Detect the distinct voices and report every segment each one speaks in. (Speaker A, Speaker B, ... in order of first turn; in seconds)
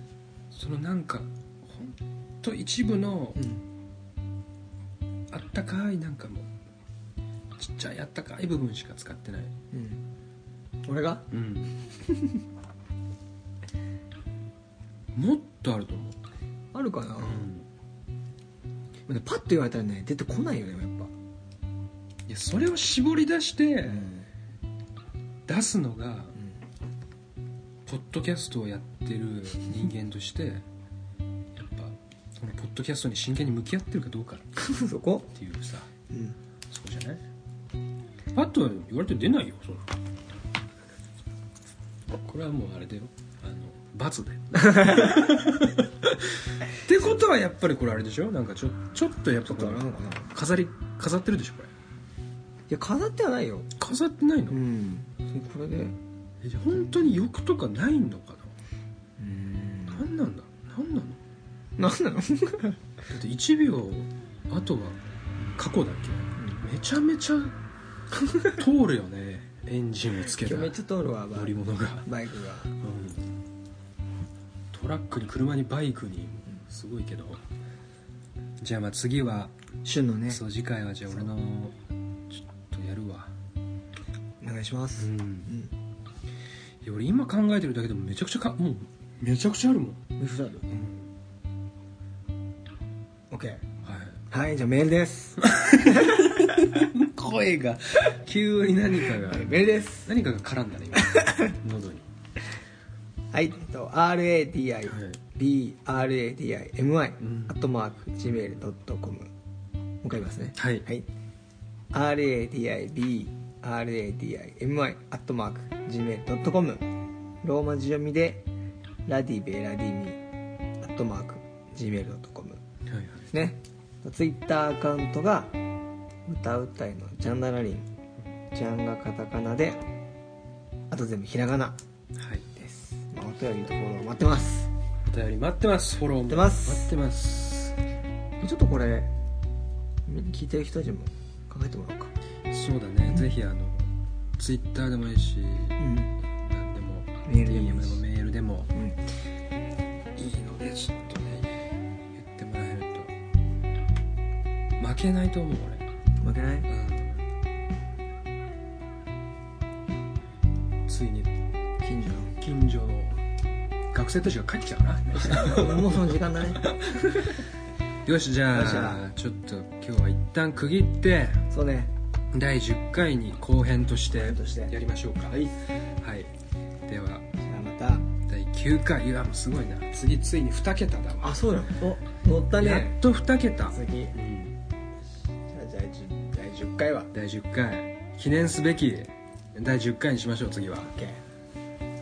Speaker A: 0.5-3.4, 5.3-6.5, 7.6-9.5, 11.3-11.7, 15.1-16.2, 17.2-17.6, 22.3-24.1, 25.5-26.3, 27.9-30.6, 31.5-34.5, 35.3-35.9, 36.7-37.2, 38.3-39.9, 42.1-51.7, 53.8-54.6, 56.4-58.5, 59.9-61.2, 63.1-65.0, 65.5-67.6, 68.4-70.8, 71.3-72.1, 72.8-73.3, 74.7-77.4, 78.6-79.5, 80.3-81.8, 82.3-83.3, 85.0-85.5, 86.8-90.0, 90.7-91.1, 93.8-94.2, 95.4-102.0, 104.9-105.2, 107.2-107.5, 110.5-110.8, 122.9-123.3, 132.2-132.5, 135.1-137.8, 142.5-145.8, 146.4-148.7, 150.1-151.6, 152.1-153.1, 154.8-155.8, 156.7-157.2, 160.8-161.3, 162.4-163.2, 163.9-167.1, 168.0-171.4, 172.3-176.3, 176.8-177.2, 178.2-181.4, 182.6-184.6, 187.1-190.9
Speaker B: 3.3-3.6, 9.7-10.0, 10.8-11.3, 12.0-12.4, 16.7-17.5, 19.1-21.1, 23.8-24.3, 26.4-26.6, 34.6-35.3, 36.1-36.4, 44.5-45.5, 49.4-50.3, 52.7-53.7, 54.5-56.0, 59.2-60.0, 61.8-62.8, 66.4-66.6, 70.4-72.7, 79.8-80.4, 84.4-85.7, 90.2-90.7, 93.3-93.6, 94.3-96.3, 99.2-100.1, 101.1-101.5, 103.3-109.3, 110.0-111.0, 111.9-116.8, 117.4-118.5, 119.1-120.2, 120.8-122.6, 123.3-125.6, 126.2-127.9, 128.5-129.8, 130.9-131.8, 132.5-134.7, 136.3-136.9, 138.4-139.1, 140.1-142.1, 145.8-146.1, 147.2-148.0, 148.7-149.0, 156.2-156.7, 161.8-162.4, 165.2-167.4, 168.5-169.0, 171.5-171.9, 174.2-174.7, 177.4-178.1, 181.2-183.0, 183.7-184.1, 185.5-187.1, 190.8-191.2